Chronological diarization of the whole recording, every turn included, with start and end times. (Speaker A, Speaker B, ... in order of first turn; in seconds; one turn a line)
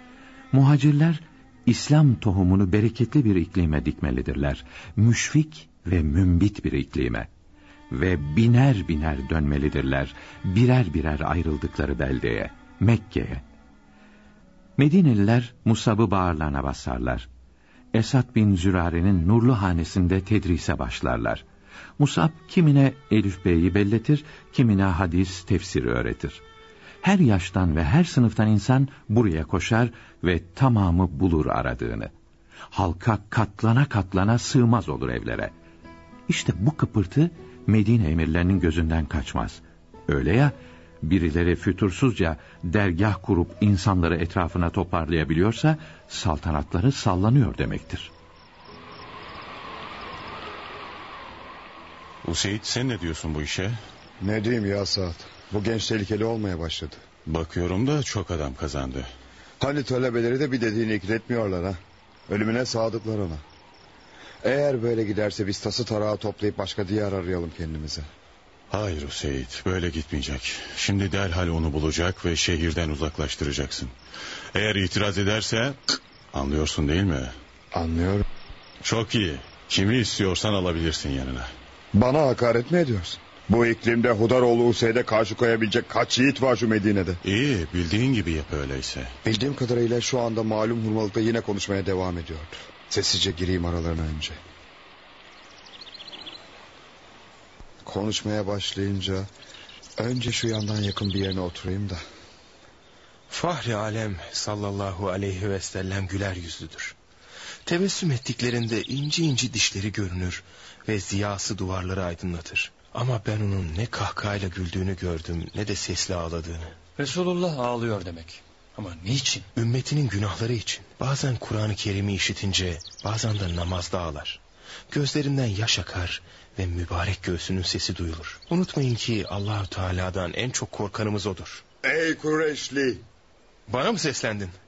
Speaker A: 0.5-7.3
Speaker A: 7.9-13.4
Speaker A: 14.8-17.3
Speaker A: 17.9-21.4
Speaker A: 22.0-26.4
Speaker A: 27.0-32.1
Speaker A: 32.7-35.5
Speaker A: 36.3-48.1
Speaker B: 52.2-53.8
Speaker C: 54.2-57.0
Speaker B: 57.2-59.1
Speaker C: 59.6-63.4
Speaker C: 64.4-68.1
Speaker B: 68.7-73.9
Speaker B: 74.5-77.3
Speaker C: 77.7-78.2
Speaker B: 78.8-81.5
Speaker C: 81.9-87.2
Speaker B: 87.2-89.1
Speaker C: 89.2-94.4
Speaker C: 97.8-99.3
Speaker C: 100.0-102.0
Speaker D: 103.3-106.9
Speaker D: 107.7-116.7
Speaker E: 117.0-119.5
Speaker D: 119.5-131.6
Speaker C: 131.8-133.0
Speaker D: 133.7-134.5